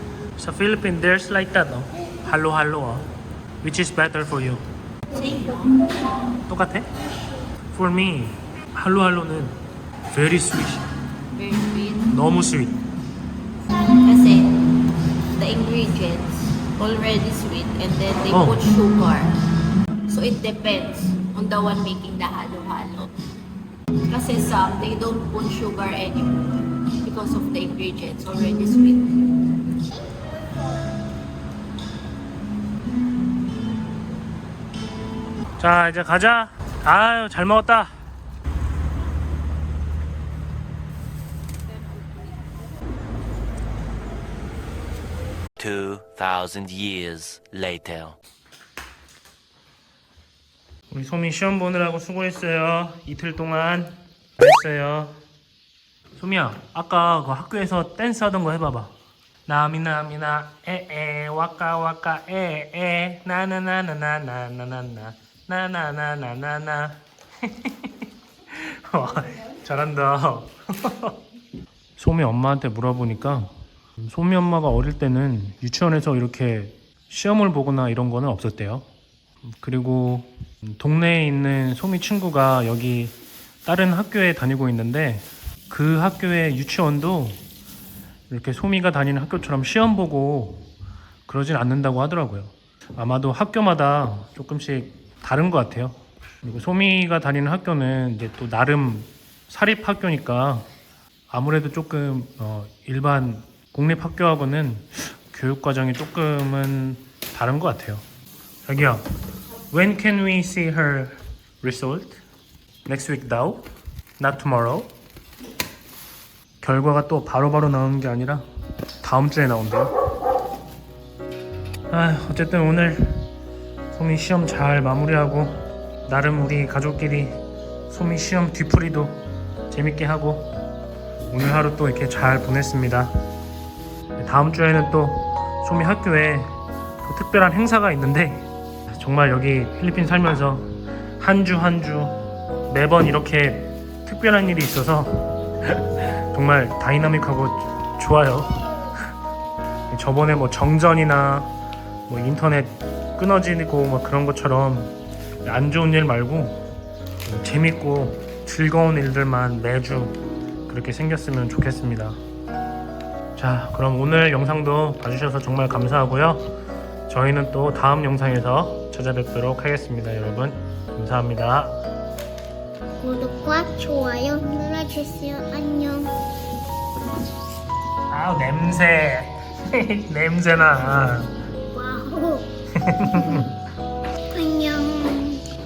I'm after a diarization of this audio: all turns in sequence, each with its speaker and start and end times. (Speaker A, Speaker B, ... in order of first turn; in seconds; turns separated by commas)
Speaker A: 0.4-3.1, Speaker A: 3.6-4.7, Speaker B: 5.1-6.2, Speaker A: 6.5-6.9, Speaker A: 7.7-9.6, Speaker A: 10.1-10.8, Speaker B: 11.4-12.1, Speaker A: 12.1-12.8, Speaker B: 13.9-14.7, Speaker B: 15.3-19.3, Speaker A: 18.3-18.6, Speaker B: 20.1-23.1, Speaker B: 24.1-29.3, Speaker A: 35.6-37.9, Speaker C: 45.6-48.2, Speaker A: 50.9-55.2, Speaker A: 56.2-58.9, Speaker A: 59.5-71.2, Speaker A: 72.0-78.9, Speaker A: 79.5-87.4, Speaker A: 88.3-90.7, Speaker A: 91.3-100.7, Speaker A: 101.3-108.0, Speaker A: 108.7-109.0, Speaker A: 109.7-112.2, Speaker A: 112.8-113.7, Speaker A: 114.2-114.9, Speaker A: 116.6-118.5, Speaker A: 119.0-119.9, Speaker A: 121.9-123.3, Speaker A: 123.9-130.5, Speaker A: 131.3-133.1, Speaker A: 134.2-148.8, Speaker A: 149.9-151.5, Speaker A: 152.1-156.6, Speaker A: 157.2-162.2, Speaker A: 163.4-166.4, Speaker A: 167.1-171.8, Speaker D: 173.0-176.1, Speaker A: 178.1-181.3, Speaker D: 181.7-182.5, Speaker A: 182.8-183.5, Speaker D: 183.1-183.4, Speaker D: 184.3-185.4